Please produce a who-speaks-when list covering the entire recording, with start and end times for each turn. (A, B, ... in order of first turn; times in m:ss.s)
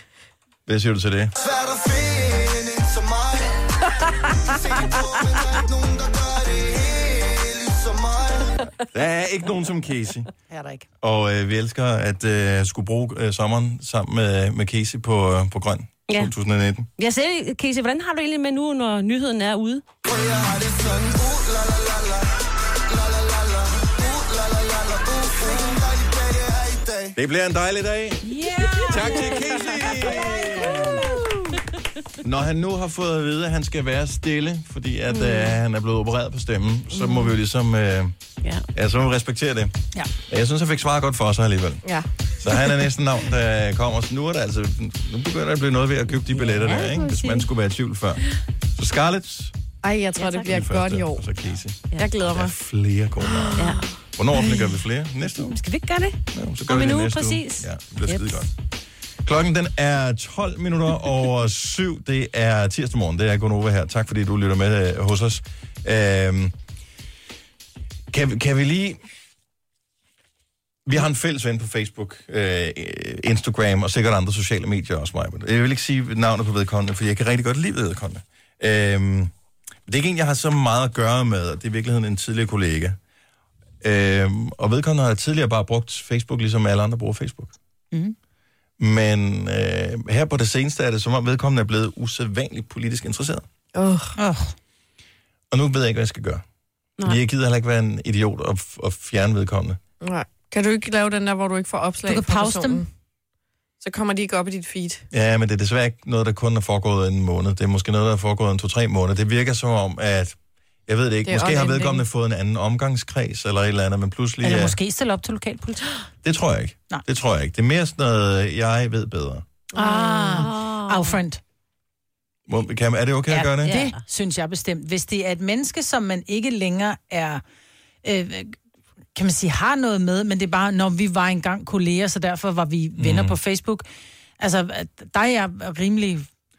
0:00.7-0:01.3 A
0:01.4-0:03.6 B
0:04.2-0:08.6 B
0:08.9-0:10.3 A
0:10.5-0:10.8 C
0:11.0-0:16.9 A
0:17.0-0:19.8 D
0:20.0-0:22.4 B
0:22.9-0:27.2 B
0:27.2-0:28.3 A
0:28.2-0:31.3 C
0:28.8-0:31.1 A
0:32.2-0:38.2 A
0:35.1-0:35.6 D
0:38.7-0:39.8 A
0:40.3-0:41.9 A
0:42.4-0:48.2 A
0:46.4-0:47.5 D
0:48.8-0:49.6 A
0:49.8-0:51.2 E
0:50.2-0:50.5 D
0:50.4-0:55.6 A
0:51.9-0:52.2 D
0:52.0-0:52.5 E
0:53.3-0:53.8 E
0:53.6-0:53.9 D
0:55.4-0:58.4 D
0:56.3-0:58.5 A
0:59.2-1:06.6 A
1:08.1-1:09.0 A
1:10.9-1:19.3 A
1:19.9-1:23.0 A
1:23.8-1:27.5 A
1:28.8-1:33.5 A
1:33.8-1:34.2 E
1:34.2-1:34.5 C
1:35.5-1:36.4 A
1:37.0-1:39.8 A
1:40.0-1:42.9 E
1:42.1-1:42.8 C
1:43.8-1:45.0 E
1:45.1-1:54.8 A
1:51.2-1:52.0 E
1:54.4-1:55.8 C
1:56.2-1:59.5 A
1:59.8-2:01.4 C
1:59.8-2:00.4 E
2:00.0-2:01.2 D
2:02.5-2:03.8 A
2:03.3-2:07.4 C
2:03.6-2:04.0 D
2:08.0-2:08.6 C
2:09.2-2:13.8 C
2:13.0-2:13.4 A
2:14.4-2:16.3 C